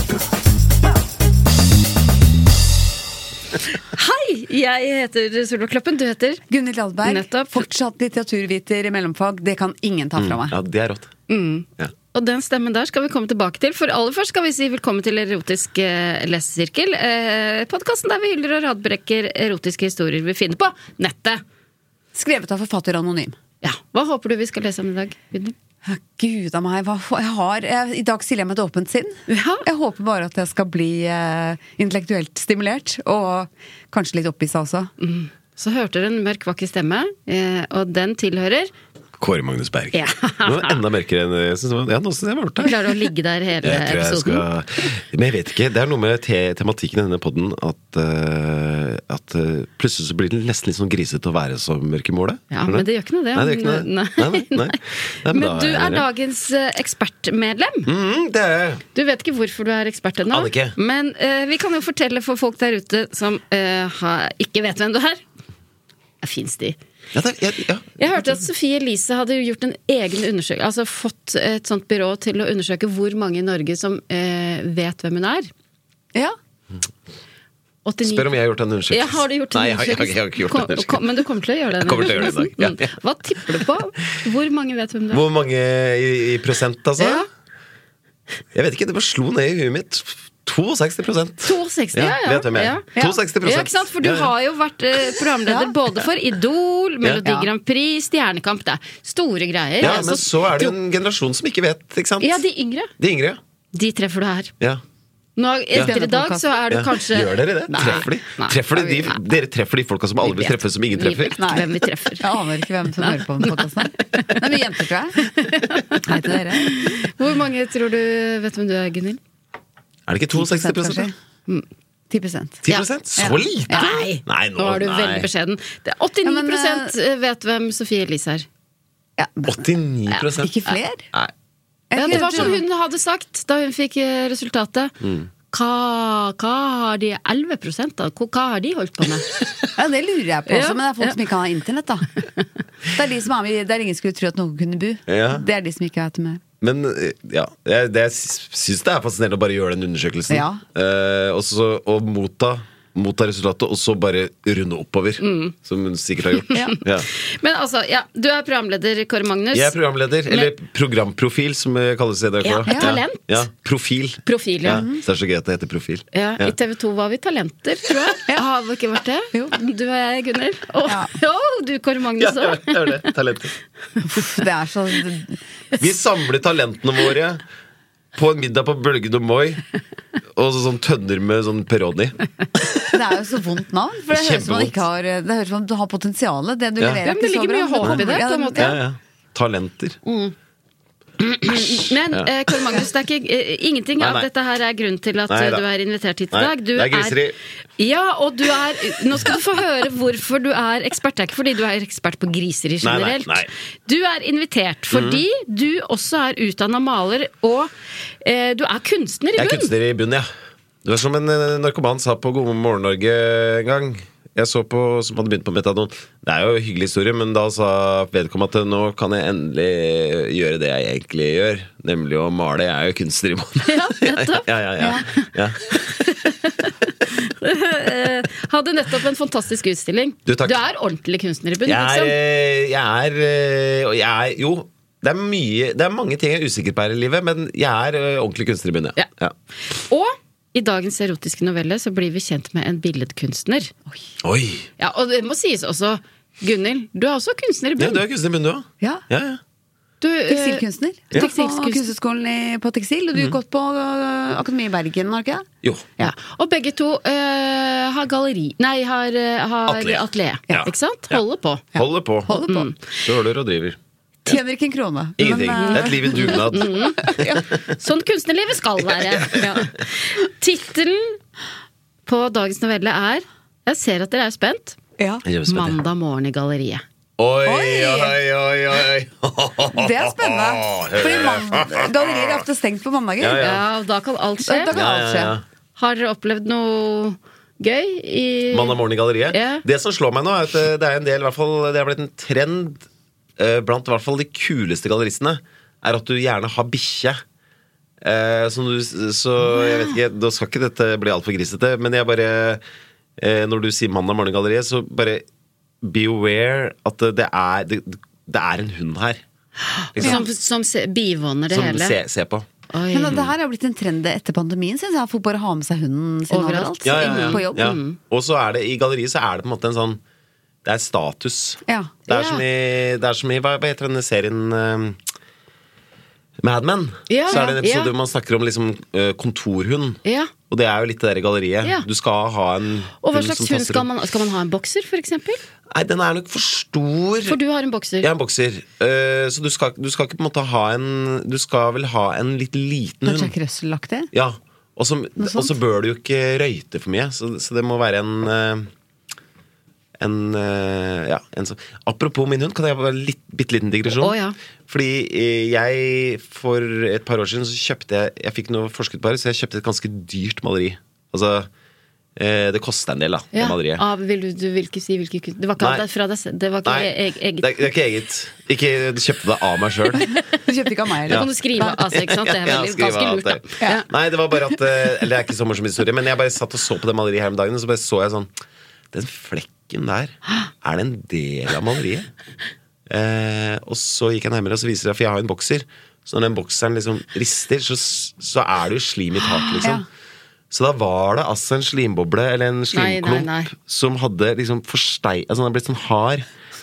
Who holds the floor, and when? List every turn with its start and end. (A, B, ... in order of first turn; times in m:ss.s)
0:03.9-0:06.4 A
0:06.5-0:10.5 B
0:07.0-0:07.7 A
0:10.2-0:11.1 C
0:11.3-0:21.4 A
0:22.1-0:23.4 B
0:23.6-0:25.5 A
0:25.8-0:34.9 B
0:29.3-0:29.6 A
0:35.0-0:38.7 A
0:39.2-0:42.8 C
0:39.9-0:40.8 A
0:42.6-0:44.4 A
0:43.6-0:56.0 C
0:52.5-0:57.9 A
0:57.8-0:58.8 C
0:58.9-1:05.2 A
1:00.3-1:00.8 C
1:06.2-1:06.8 A
1:07.1-1:08.4 C
1:08.0-1:15.5 A
1:17.8-1:18.3 A
1:18.0-1:21.0 C
1:18.9-1:25.2 A
1:21.8-1:22.9 C
1:25.1-1:27.2 C
1:27.0-1:27.3 A
1:28.5-1:34.3 C
1:31.4-1:32.8 A
1:33.4-1:40.7 A
1:35.5-1:35.7 B
1:37.2-1:37.5 B
1:39.8-1:42.4 C
1:42.2-1:42.9 A
1:43.0-1:43.4 C
1:43.7-1:44.5 A
1:45.4-1:48.6 A
1:45.8-1:46.5 B
1:46.7-1:51.6 C
1:47.7-1:48.0 B
1:48.7-1:49.1 B
1:50.2-1:52.3 A
1:51.4-1:55.2 B
1:53.0-1:53.5 A
1:55.2-1:59.2 A
1:55.9-1:57.0 B
2:00.1-2:01.1 C
2:00.3-2:01.1 B
2:02.1-2:02.6 B
2:02.6-2:05.3 C
2:03.2-2:03.9 B
2:03.7-2:08.4 A
2:06.2-2:06.9 B
2:09.2-2:09.6 B
2:09.5-2:10.5 C
2:10.4-2:11.0 B
2:11.9-2:12.6 B
2:11.9-2:14.9 A
2:12.1-2:12.6 C
2:15.0-2:15.3 C
2:15.5-2:19.3 A
2:19.8-2:22.2 B
2:20.5-2:21.1 A
2:22.9-2:26.4 B
2:25.1-2:25.4 C
2:26.6-2:37.1 C
2:30.3-2:30.6 B
2:35.2-2:35.5 A
2:36.5-2:39.8 A
2:39.5-2:46.5 C
2:42.4-2:43.4 A
2:42.7-2:43.0 B
2:44.2-2:44.8 A
2:44.7-2:45.0 B
2:46.1-2:53.0 A
2:52.2-2:53.5 C
2:54.1-2:55.4 B
2:55.8-2:57.4 C
2:58.1-2:59.6 C
3:00.3-3:02.8 C
3:02.9-3:08.8 B
3:04.1-3:04.8 C
3:07.0-3:08.7 A
3:08.6-3:10.0 C
3:10.0-3:10.3 A
3:11.2-3:17.2 A
3:14.0-3:14.3 C
3:15.3-3:15.6 C
3:16.3-3:17.4 C
3:17.8-3:27.7 A
3:22.8-3:23.5 C
3:24.9-3:25.2 C
3:28.2-3:29.7 A
3:29.4-3:30.3 C
3:30.8-3:45.7 C
3:43.6-3:44.4 A
3:45.9-3:52.1 A
3:50.3-3:50.6 C
3:51.7-3:59.3 C
3:59.7-4:03.7 A
4:04.2-4:04.7 C
4:04.8-4:08.0 A
4:07.8-4:09.4 C
4:10.0-4:11.9 A
4:10.3-4:15.5 B
4:15.6-4:15.9 C
4:16.0-4:21.6 A
4:19.7-4:21.2 C
4:21.7-4:22.4 C
4:21.7-4:22.7 B
4:22.3-4:22.8 A
4:22.9-4:24.4 C
4:24.2-4:27.4 B
4:25.2-4:27.7 C
4:25.2-4:31.2 A
4:28.8-4:29.7 C
4:32.0-4:34.8 A
4:35.0-4:35.2 B
4:35.2-4:35.8 C
4:35.4-4:36.8 A
4:37.2-4:42.4 C
4:37.4-4:38.1 B
4:39.7-4:43.4 B
4:43.2-4:43.6 C
4:43.4-4:44.8 A
4:44.4-4:45.3 B
4:44.7-4:45.4 C
4:45.8-4:48.8 A
4:48.5-4:52.8 C
4:49.3-4:49.6 A
4:53.4-4:57.2 C
4:58.0-5:02.6 C
4:59.4-4:59.9 A
5:03.2-5:05.2 C
5:05.8-5:09.2 C
5:09.8-5:11.9 A
5:09.9-5:10.2 C
5:11.5-5:12.5 C
5:12.7-5:13.2 A
5:12.9-5:17.8 B
5:16.3-5:18.0 A
5:16.8-5:20.0 C
5:20.6-5:25.0 C
5:21.7-5:21.9 B
5:22.1-5:22.4 A
5:26.4-5:33.9 C
5:27.1-5:27.9 A
5:30.0-5:30.3 A
5:33.0-5:35.4 A
5:35.7-5:37.4 C
5:37.3-5:38.1 A
5:38.0-5:43.3 C
5:43.0-5:44.1 B
5:44.1-5:48.7 C
5:45.2-5:45.5 B
5:50.0-5:54.2 C
5:53.9-5:54.3 A
5:54.7-6:01.5 C
6:02.2-6:03.8 C
6:03.3-6:07.6 A
6:06.6-6:10.1 C
6:10.4-6:11.8 B
6:11.1-6:18.3 C
6:11.1-6:13.8 A
6:18.9-6:22.1 C
6:22.9-6:29.8 C
6:30.5-6:36.2 C
6:32.7-6:33.5 A